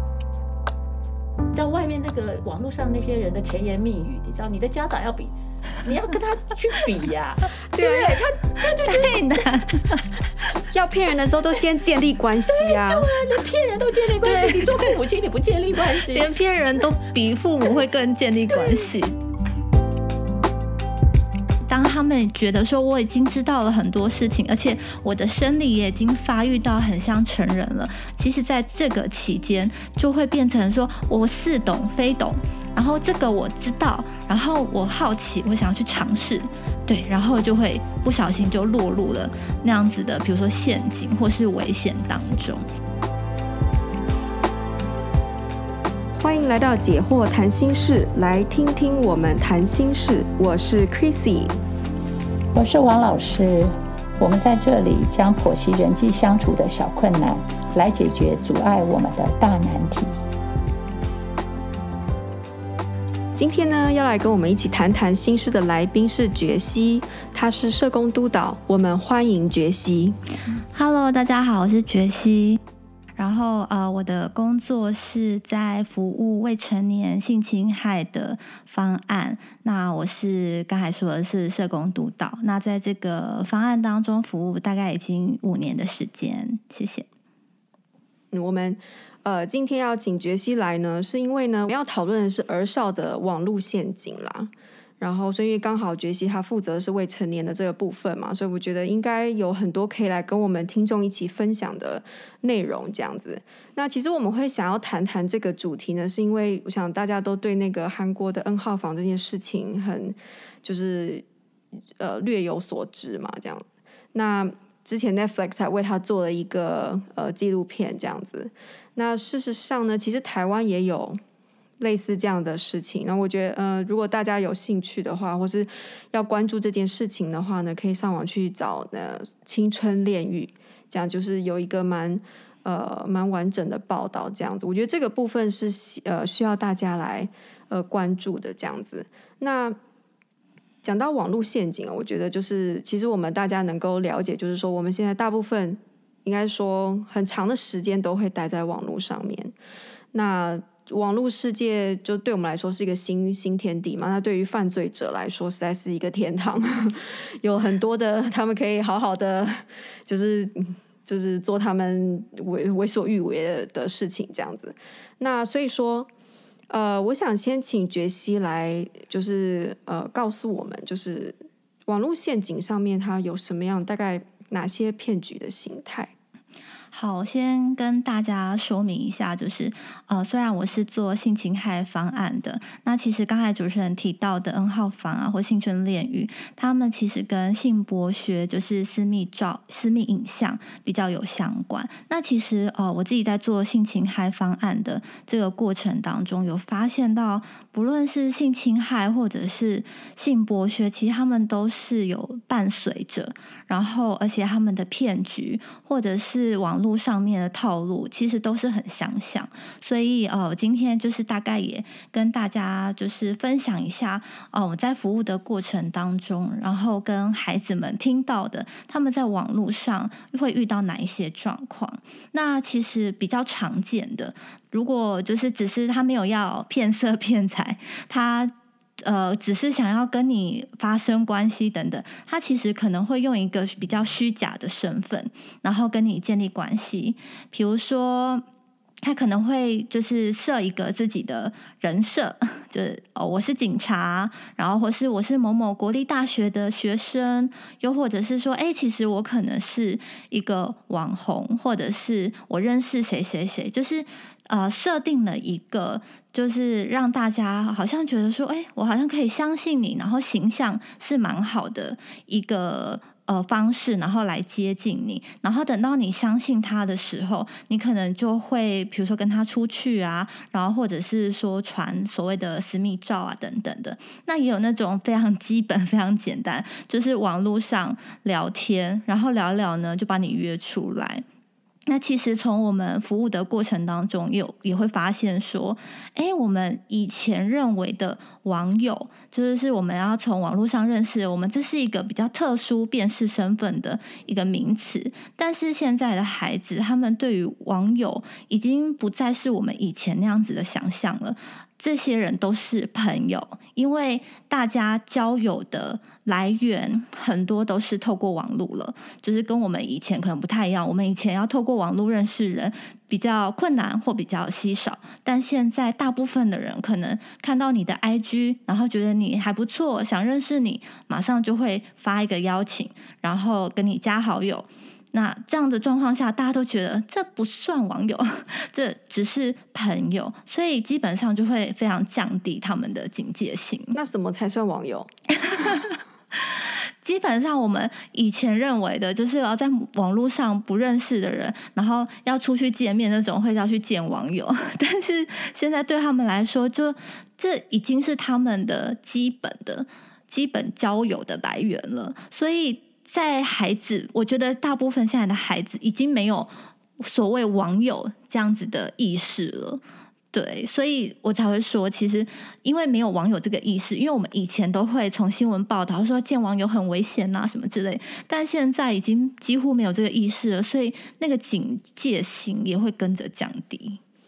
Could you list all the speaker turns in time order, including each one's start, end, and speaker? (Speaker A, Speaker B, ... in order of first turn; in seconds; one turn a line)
Speaker A: 1.5-9.5
Speaker B: 7.7-8.2
Speaker C: 8.8-10.1
Speaker B: 10.7-13.1
Speaker A: 12.5-16.3
Speaker C: 14.2-14.9
Speaker C: 16.0-19.1
Speaker A: 18.5-18.9
Speaker C: 21.7-42.6
Speaker B: 46.1-51.6
Speaker A: 52.5-60.2
Speaker B: 63.3-70.2
Speaker C: 70.7-72.6
Speaker C: 73.2-87.1
Speaker B: 88.3-111.2
Speaker B: 112.0-121.2
Speaker B: 121.8-139.8
Speaker B: 140.8-149.5
Speaker B: 150.1-166.1
Speaker B: 166.7-176.1
Speaker C: 176.9-238.4
Speaker C: 239.0-281.2
Speaker C: 281.9-334.0
Speaker B: 333.9-335.1
Speaker C: 335.3-359.8
Speaker C: 360.3-374.0